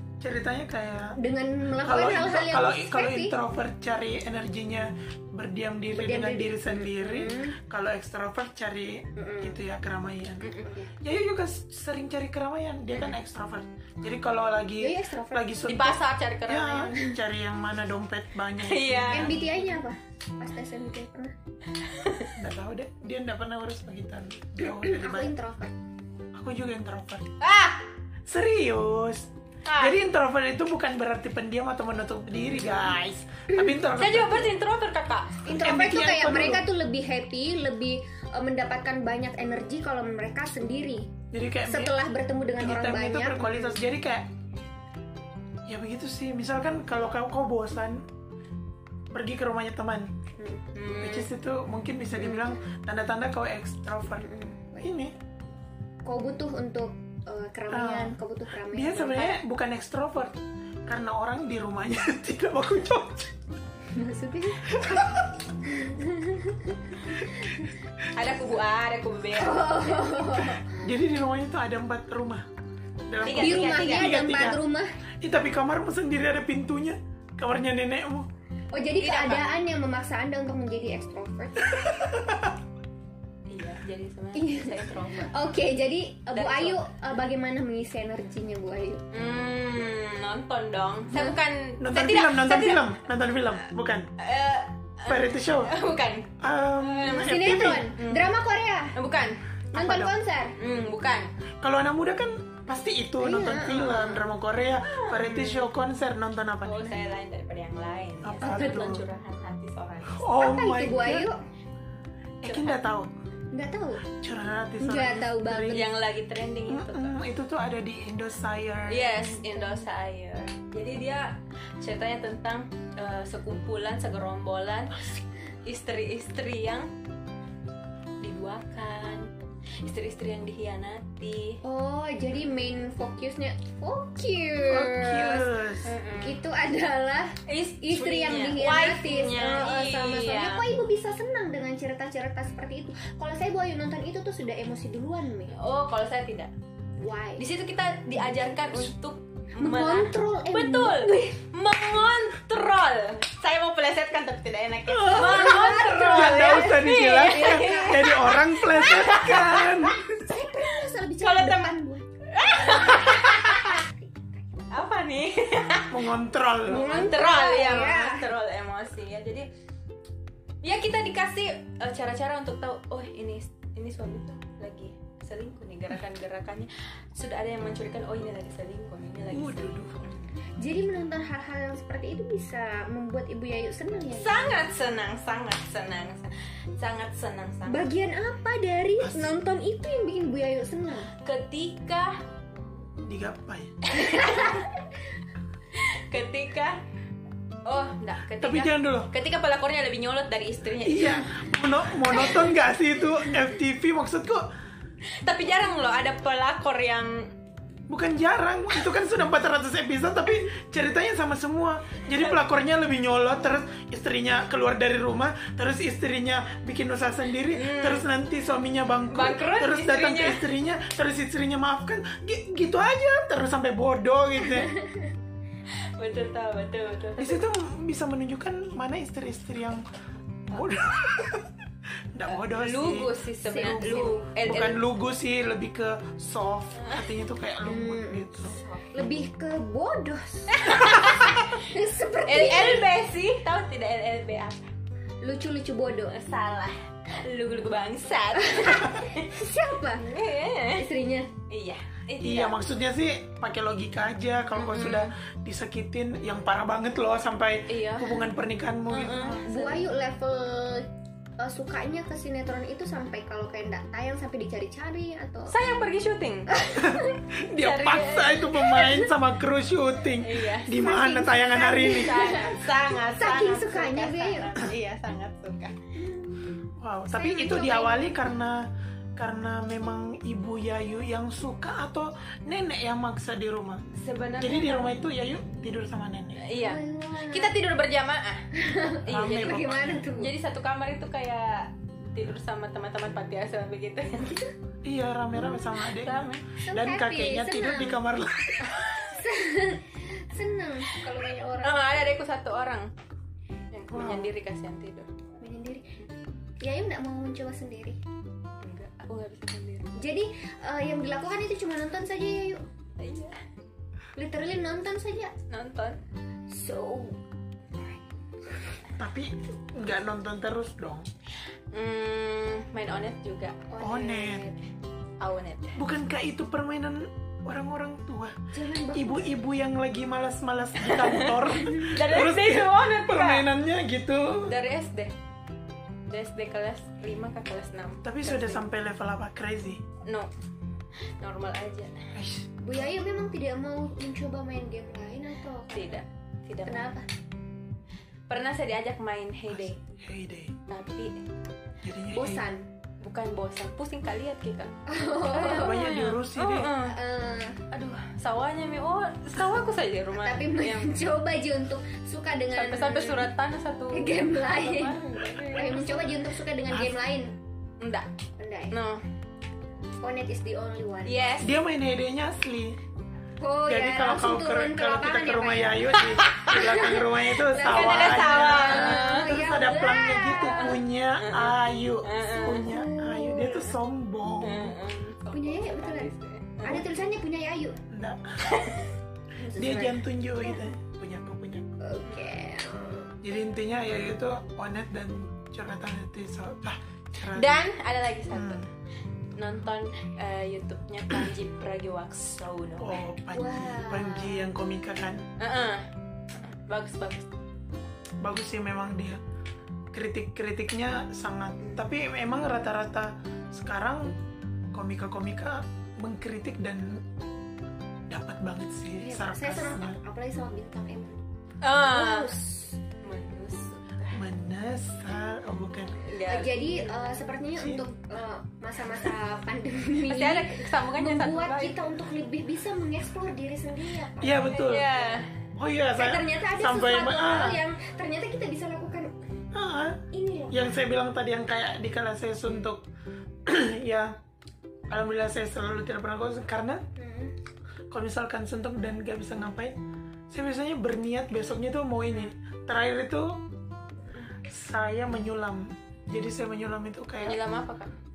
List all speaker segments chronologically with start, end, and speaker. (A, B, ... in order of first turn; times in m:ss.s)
0:00.2-0:01.2 A
0:01.2-0:03.4 B
0:01.8-0:19.4 A
0:05.9-0:07.6 B
0:09.2-0:09.6 B
0:10.4-0:10.7 C
0:10.6-0:10.9 B
0:14.8-0:15.5 B
0:15.7-0:17.2 C
0:18.6-0:19.6 C
0:19.1-0:21.4 B
0:21.8-0:22.3 C
0:22.4-0:25.3 A
0:24.6-0:25.7 B
0:26.3-0:27.3 A
0:27.4-0:27.9 C
0:28.3-0:34.5 A
0:29.7-0:30.0 C
0:33.9-0:35.5 C
0:35.4-0:41.1 B
0:35.5-0:36.7 A
0:41.3-0:42.0 A
0:41.6-0:43.8 B
0:42.6-0:44.3 A
0:45.7-0:48.1 A
0:49.1-0:50.1 A
0:50.4-0:50.6 B
0:50.8-0:51.3 C
0:51.0-0:54.3 A
0:52.2-0:52.5 B
0:54.2-0:54.9 B
0:54.8-0:55.2 A
0:56.0-0:59.4 B
0:57.7-1:03.3 A
1:03.9-1:05.0 B
1:04.7-1:05.3 A
1:05.6-1:07.5 B
1:08.1-1:10.2 C
1:09.4-1:10.8 B
1:10.7-1:12.5 A
1:13.1-1:14.6 A
1:13.2-1:14.2 C
1:13.3-1:14.9 B
1:15.2-1:18.3 A
1:18.7-1:22.1 B
1:19.0-1:19.5 C
1:21.8-1:22.6 A
1:23.5-1:25.4 C
1:24.4-1:29.0 B
1:26.3-1:26.8 C
1:29.1-1:32.9 C
1:31.1-1:31.4 B
1:31.8-1:34.1 A
1:34.2-1:38.3 C
1:35.1-1:35.8 A
1:36.4-1:37.9 A
1:37.1-1:39.0 B
1:39.0-1:39.4 C
1:39.7-1:40.6 B
1:39.7-1:40.2 A
1:40.6-1:41.3 C
1:41.6-1:47.0 A
1:43.2-1:44.2 B
1:43.9-1:44.2 C
1:44.8-1:45.7 C
1:46.6-1:50.2 C
1:48.2-1:49.0 A
1:48.4-1:48.9 B
1:50.1-1:51.3 A
1:50.4-1:51.4 B
1:52.4-1:53.1 A
1:52.5-1:52.8 C
1:53.5-1:54.0 B
1:54.1-1:55.9 A
1:54.8-1:55.9 B
1:55.7-1:57.2 C
1:56.7-1:59.2 A
1:58.9-2:05.1 C
1:59.1-1:59.9 B
2:05.6-2:06.9 C
2:08.2-2:09.3 C
2:09.8-2:11.6 C
2:11.6-2:15.5 B
2:14.7-2:16.0 A
2:15.8-2:16.4 C
2:16.2-2:25.6 B
2:17.5-2:20.6 C
2:25.5-2:26.5 C
2:27.0-2:27.5 B
2:27.4-2:39.9 C
2:29.6-2:31.4 B
2:34.9-2:40.0 A
2:35.0-2:38.2 B
2:39.9-2:44.7 B
2:41.2-2:41.8 C
2:42.3-2:43.8 C
2:44.7-2:46.1 C
2:45.9-2:46.9 A
2:46.7-2:49.5 C
2:46.7-2:48.3 B
2:50.6-3:00.2 C
2:59.3-3:00.0 A
3:00.6-3:04.4 B
3:04.2-3:07.9 C
3:07.7-3:11.1 B
3:09.0-3:09.3 A
3:11.1-3:12.2 C
3:13.0-3:13.8 A
3:13.8-3:14.7 C
3:14.0-3:14.7 B
3:15.8-3:16.8 C
3:17.6-3:21.5 C
3:18.4-3:19.1 A
3:20.8-3:24.5 A
3:22.0-3:22.6 C
3:25.2-3:27.4 C
3:27.9-3:44.8 A
3:37.5-3:38.1 C
3:39.1-3:40.5 C
3:46.0-3:47.4 C
3:47.2-3:49.9 A
3:50.5-3:51.6 A
3:52.1-3:58.6 A
3:52.3-3:54.8 C
3:53.4-3:54.2 B
3:56.8-3:57.1 C
3:57.6-4:02.9 B
3:58.5-3:58.9 C
4:00.5-4:01.6 C
4:02.3-4:04.7 C
4:05.2-4:06.2 B
4:06.1-4:09.3 C
4:08.4-4:10.1 B
4:10.0-4:10.9 C
4:10.8-4:11.3 B
4:11.5-4:12.6 C
4:12.2-4:19.5 A
4:14.6-4:15.1 C
4:17.7-4:18.2 C
4:18.9-4:19.9 C
4:19.4-4:25.6 B
4:25.5-4:26.7 C
4:26.5-4:27.2 B
4:26.7-4:32.4 A
4:27.5-4:28.6 C
4:28.6-4:29.0 B
4:30.2-4:30.8 C
4:30.8-4:34.5 B
4:31.7-4:35.8 C
4:36.0-4:36.5 B
4:36.8-4:43.9 A
4:37.1-4:38.2 B
4:44.0-4:45.0 C
4:44.4-4:46.4 A
4:46.4-4:54.5 C
4:46.6-4:47.6 B
4:48.5-4:50.3 B
4:49.1-4:50.0 A
4:54.8-4:59.0 A
4:55.5-4:56.4 C
4:56.6-4:58.0 B
4:59.0-5:01.8 B
5:01.6-5:02.9 C
5:03.7-5:05.1 C
5:03.9-5:04.3 A
5:05.4-5:06.0 B
5:06.6-5:08.0 B
5:08.6-5:09.9 C
5:10.0-5:12.6 B
5:13.0-5:13.4 C
5:14.2-5:15.3 B
5:15.5-5:16.0 C
5:16.5-5:17.2 B
5:19.0-5:21.1 A
5:21.7-5:23.7 C
5:23.7-5:24.6 B
5:23.8-5:24.5 A
5:25.2-5:25.8 C
5:25.8-5:28.4 A
5:28.5-5:29.3 B
5:28.9-5:34.6 A
5:30.8-5:33.5 C
5:34.4-5:35.1 C
5:36.1-5:38.7 C
5:38.0-5:39.8 A
5:40.0-5:40.3 C
5:41.2-5:42.1 C
5:42.2-5:42.5 A
5:42.6-5:46.0 B
5:45.7-5:46.9 C
5:46.6-5:47.1 B
5:48.3-5:49.8 C
5:49.5-5:50.6 A
5:50.7-5:51.2 C
5:51.8-5:52.4 A
5:52.1-5:52.7 B
5:53.0-5:57.0 C
5:54.9-5:55.8 B
5:55.5-5:56.8 A
5:56.8-5:57.6 B
5:57.7-6:01.0 C
6:00.2-6:03.3 B
6:02.6-6:06.2 C
6:03.9-6:07.4 B
6:06.7-6:07.0 A
6:07.8-6:08.1 C
6:08.4-6:08.8 B
6:08.7-6:09.0 C
6:10.0-6:11.4 B
6:11.0-6:11.5 C
6:11.4-6:12.8 A
6:13.4-6:20.8 B
6:13.7-6:24.8 A
6:16.0-6:16.8 C
6:17.5-6:19.3 C
6:20.4-6:22.8 C
6:22.3-6:23.7 B
6:24.4-6:26.8 C
6:25.3-6:27.8 B
6:27.9-6:28.6 A
6:28.4-6:28.9 C
6:29.4-6:30.7 B
6:29.6-6:31.7 A
6:31.8-6:33.1 B
6:33.2-6:37.6 A
6:37.3-6:38.7 C
6:38.3-6:38.7 A
6:39.4-6:43.0 C
6:42.8-6:45.3 A
6:43.3-6:44.5 B
6:45.4-6:47.3 C
6:48.2-6:49.2 A
6:49.9-6:54.2 A
6:54.7-6:57.0 A
6:58.1-7:00.0 A
6:59.0-7:01.2 B
7:01.6-7:02.4 C
7:01.8-7:02.8 B
7:03.0-7:04.2 C
7:04.1-7:06.0 A
7:06.0-7:07.4 C
7:06.3-7:15.2 B
7:07.6-7:07.9 A
7:10.0-7:11.9 C
7:14.2-7:14.9 A
7:14.6-7:15.3 C
7:15.6-7:17.6 A
7:16.0-7:19.2 B
7:19.5-7:22.9 A
7:20.1-7:20.6 B
7:23.4-7:24.2 A
7:24.9-7:26.8 A
7:27.0-7:27.3 B
7:27.9-7:29.8 A
7:30.3-7:33.4 A
7:34.4-7:37.4 A
7:37.2-7:37.9 C